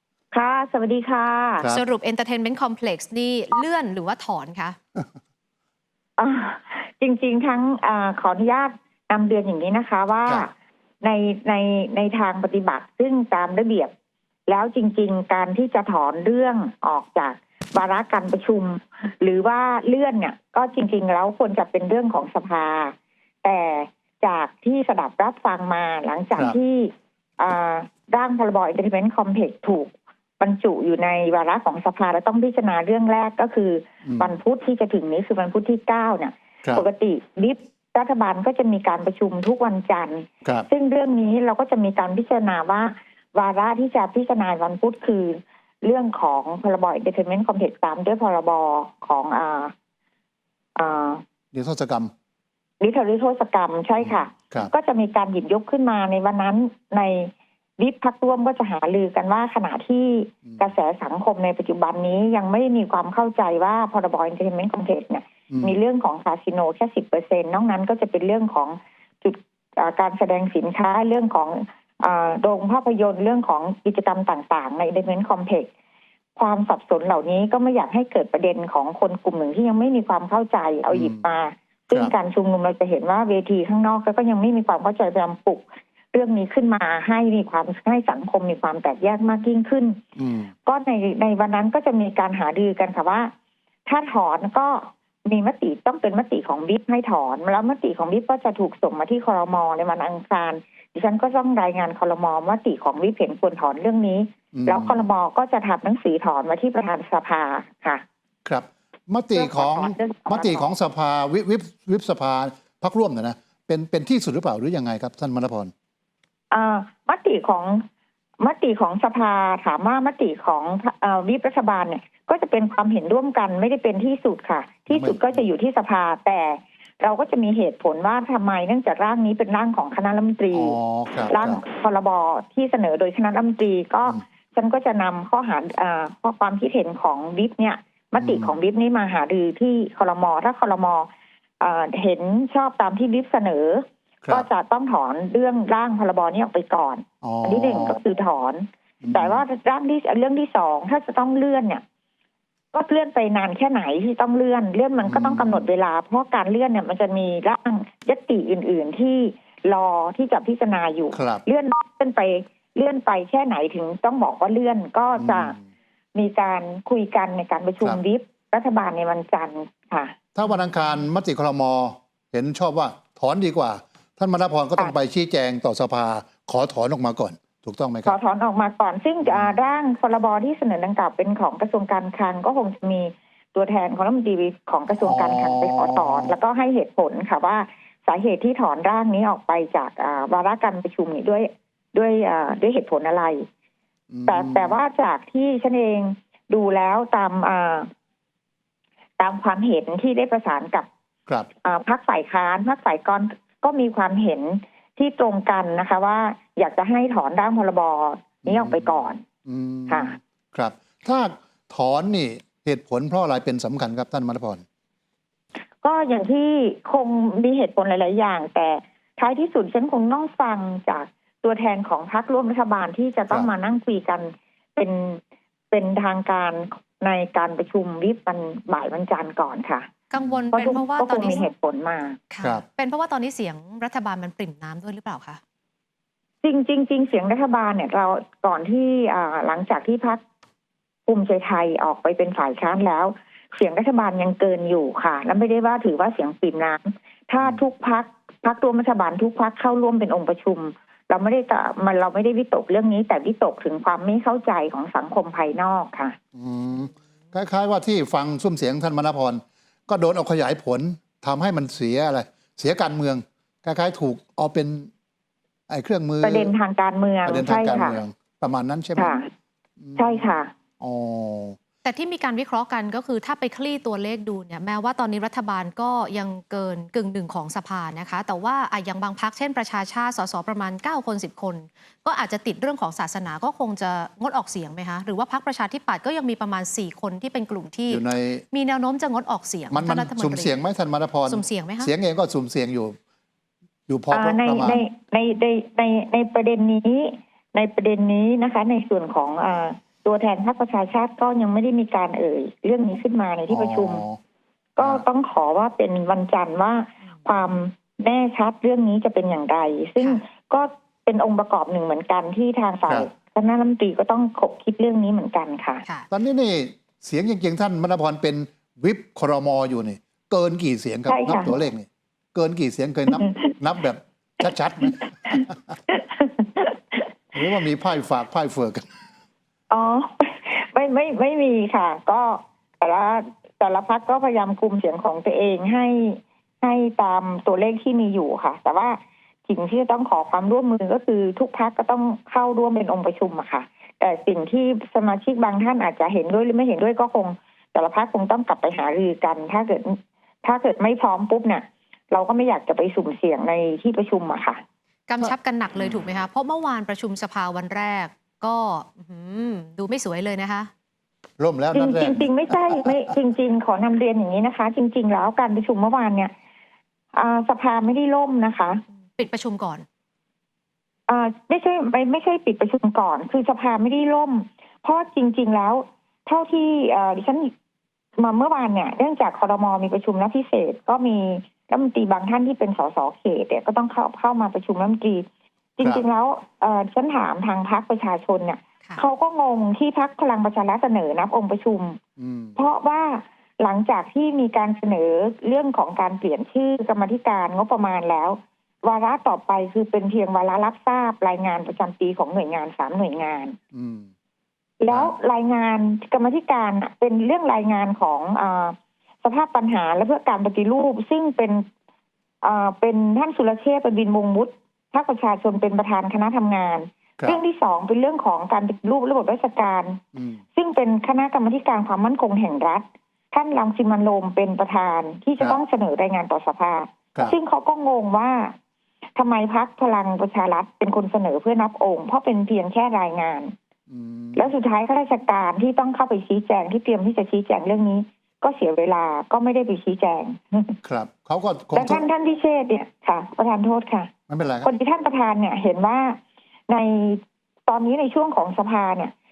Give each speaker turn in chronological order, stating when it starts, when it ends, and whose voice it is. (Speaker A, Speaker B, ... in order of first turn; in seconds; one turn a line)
Speaker A: 0.3-1.7
Speaker B: 1.6-1.8
Speaker C: 1.7-4.8
Speaker A: 6.2-10.5
Speaker A: 11.0-13.9
Speaker A: 14.5-49.7
Speaker B: 34.0-34.3
Speaker A: 50.8-51.2
Speaker B: 51.5-52.1
Speaker A: 52.8-75.7
Speaker B: 54.0-54.7
Speaker B: 60.5-60.8
Speaker B: 65.5-65.8
Speaker A: 76.4-90.0
Speaker B: 80.9-81.2
Speaker B: 90.2-90.5
Speaker A: 90.7-93.3
Speaker A: 93.9-108.0
Speaker B: 104.5-105.0
Speaker B: 108.5-115.7
Speaker A: 109.3-110.7
Speaker A: 116.5-117.8
Speaker A: 118.4-130.8
Speaker B: 124.9-125.4
Speaker B: 130.5-131.6
Speaker A: 131.3-141.1
Speaker B: 138.2-138.6
Speaker A: 141.6-151.8
Speaker B: 147.2-148.0
Speaker B: 149.0-149.4
Speaker A: 152.7-165.6
Speaker B: 155.0-155.7
Speaker B: 161.1-161.4
Speaker B: 165.2-165.6
Speaker A: 166.2-170.2
Speaker B: 170.3-178.2
Speaker A: 178.1-193.5
Speaker B: 179.2-179.6
Speaker B: 184.9-186.3
Speaker B: 194.1-194.8
Speaker A: 194.3-197.9
Speaker A: 199.2-200.9
Speaker A: 201.6-209.2
Speaker B: 208.5-214.6
Speaker A: 209.9-210.2
Speaker A: 215.8-225.2
Speaker A: 225.7-229.9
Speaker C: 230.1-231.5
Speaker A: 230.5-232.2
Speaker C: 232.3-235.4
Speaker A: 236.4-240.2
Speaker A: 241.1-256.2
Speaker B: 256.4-264.9
Speaker B: 265.7-266.5
Speaker A: 266.2-268.0
Speaker B: 267.2-269.2
Speaker A: 269.0-269.3
Speaker B: 269.8-271.6
Speaker A: 270.0-270.5
Speaker C: 271.8-290.6
Speaker B: 287.9-288.4
Speaker B: 289.7-293.0
Speaker C: 291.3-291.9
Speaker B: 293.9-294.8
Speaker A: 294.1-304.0
Speaker B: 303.5-304.2
Speaker A: 304.8-315.9
Speaker B: 316.1-325.7
Speaker A: 321.1-321.5
Speaker A: 323.1-323.5
Speaker A: 325.3-327.0
Speaker B: 327.3-328.9
Speaker A: 329.7-354.6
Speaker C: 355.1-360.7
Speaker B: 361.4-362.9
Speaker A: 361.7-366.3
Speaker A: 367.1-368.8
Speaker C: 369.2-369.9
Speaker A: 371.1-377.5
Speaker A: 378.2-385.3
Speaker A: 385.8-392.0
Speaker B: 392.2-392.6
Speaker A: 392.6-403.6
Speaker B: 403.7-404.1
Speaker A: 404.8-411.7
Speaker A: 412.4-420.0
Speaker B: 420.1-420.4
Speaker A: 420.6-428.6
Speaker A: 429.2-433.5
Speaker B: 433.9-434.5
Speaker A: 434.4-440.8
Speaker B: 440.8-442.0
Speaker A: 441.7-444.1
Speaker B: 444.3-444.7
Speaker A: 444.6-446.2
Speaker A: 446.7-449.1